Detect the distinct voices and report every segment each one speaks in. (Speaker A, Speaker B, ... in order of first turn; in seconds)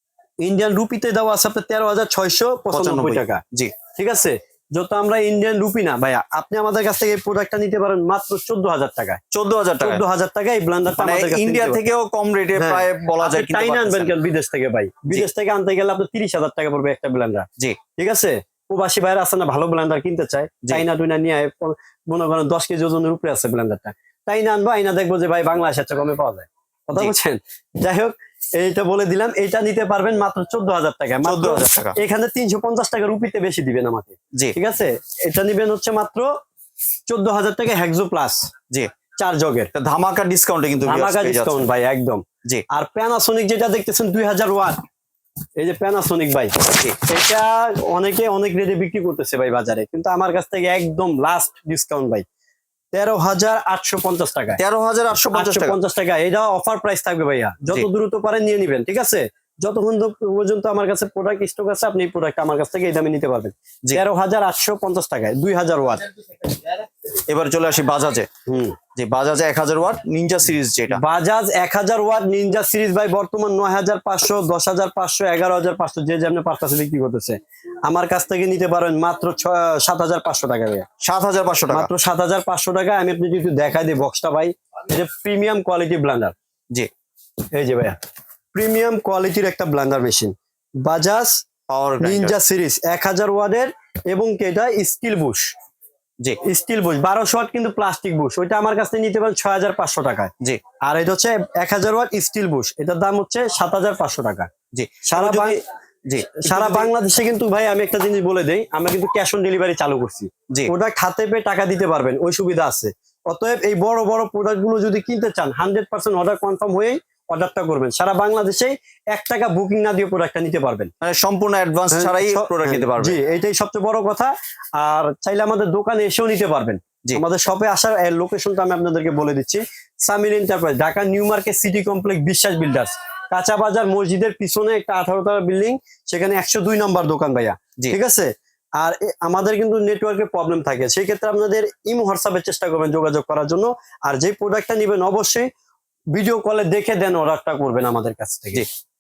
Speaker A: 0.4-3.4, 3.9-9.2, 9.8-11.8, 12.5-36.3, 37.1-38.5, 39.2-39.7, 40.9-44.8, 45.6-52.2, 52.9-54.6, 55.3-66.1, 68.5-68.8, 70.9-80.9, 81.7-86.3, 87.5-88.0, 88.5-91.4, 92.0-95.5, 96.4-100.3, 100.8-104.5, 105.0-105.6, 106.4-120.9, 121.9-145.5, 146.1-148.6
Speaker B: 2.7-3.7, 9.3-10.0, 11.0-14.1, 31.2-32.0, 39.7-41.6, 54.6-55.8, 67.3-68.3, 68.9-71.0, 81.0-81.9, 91.7-92.4, 104.7-106.9, 121.0-123.2